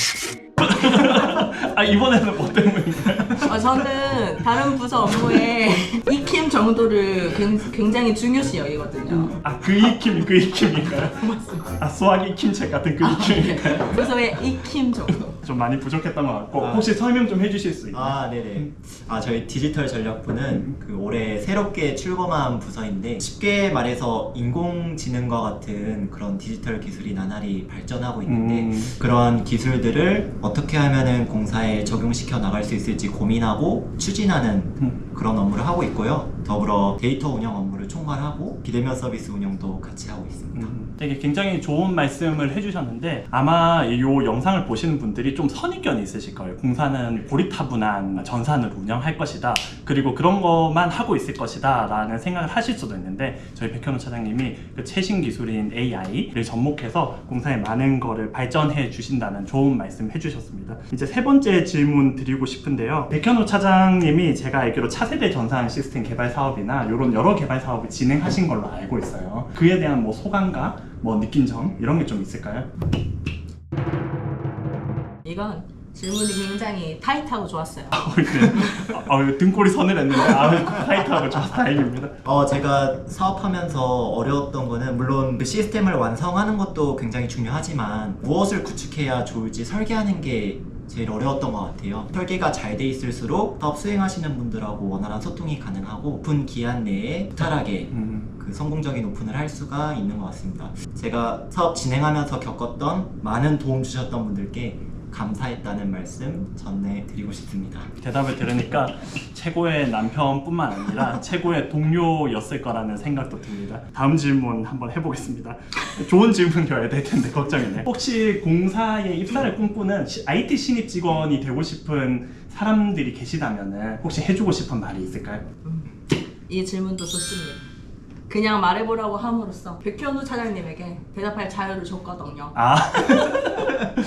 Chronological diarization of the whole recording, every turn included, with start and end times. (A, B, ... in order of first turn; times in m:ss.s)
0:00.6-0:03.6 A
0:03.4-0:09.4 B
0:09.4-0:11.2 A
0:11.2-0:11.7 B
0:11.7-0:14.1 A
0:13.0-0:15.3 B
0:15.3-0:18.7 A
0:16.6-0:17.0 C
0:17.9-0:40.8 C
0:28.2-0:28.9 A
0:40.5-1:12.7 A
1:15.2-1:18.8 B
1:17.9-1:22.2 A
1:22.2-1:47.9 C
1:37.4-1:38.3 A
1:48.0-2:05.4 A
2:05.6-2:07.6 B
2:08.3-2:12.5 B
2:12.5-2:13.8 A